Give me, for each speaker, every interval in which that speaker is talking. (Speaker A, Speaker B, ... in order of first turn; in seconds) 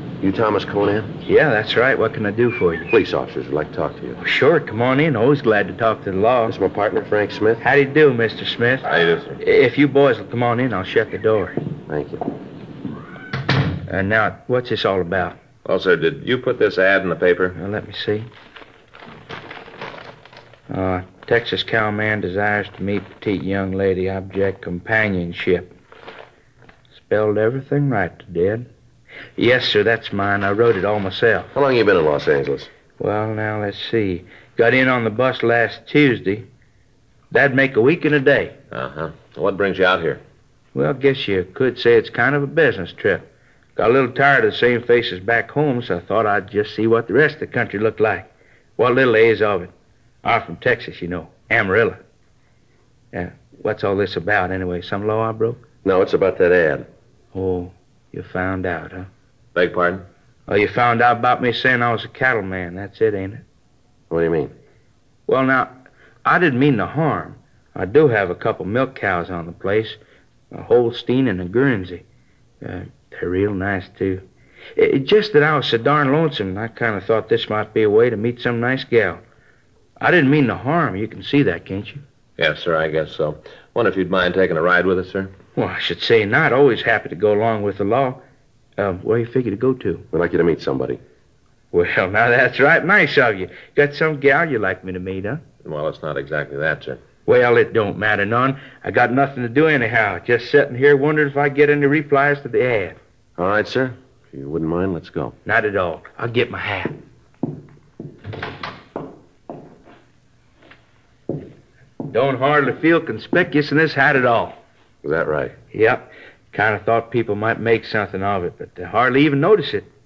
Speaker A: 0.2-1.1, 2.9-4.2, 6.5-7.6, 11.9-12.3, 31.5-32.7, 55.8-56.9, 64.1-64.5, 90.1-91.0, 103.4-105.3, 115.0-115.5
Speaker B: 1.2-2.9, 4.2-6.5, 7.6-8.8, 9.4-11.6, 13.9-15.4, 17.6-18.3, 20.7-25.7, 26.9-28.7, 29.4-31.5, 33.0-36.5, 37.3-38.6, 40.7-49.7, 50.2-52.0, 53.1-55.6, 57.3-59.1, 60.5-63.4, 65.3-70.0, 70.5-72.0, 72.6-74.2, 74.8-79.2, 80.0-82.0, 85.5-88.2, 88.8-90.0, 91.7-95.4, 97.2-103.0, 105.5-106.9, 112.1-114.5, 115.7-119.9
Speaker C: 8.8-9.4, 15.6-17.6, 38.7-40.2, 59.5-60.0, 82.4-85.3, 95.6-97.0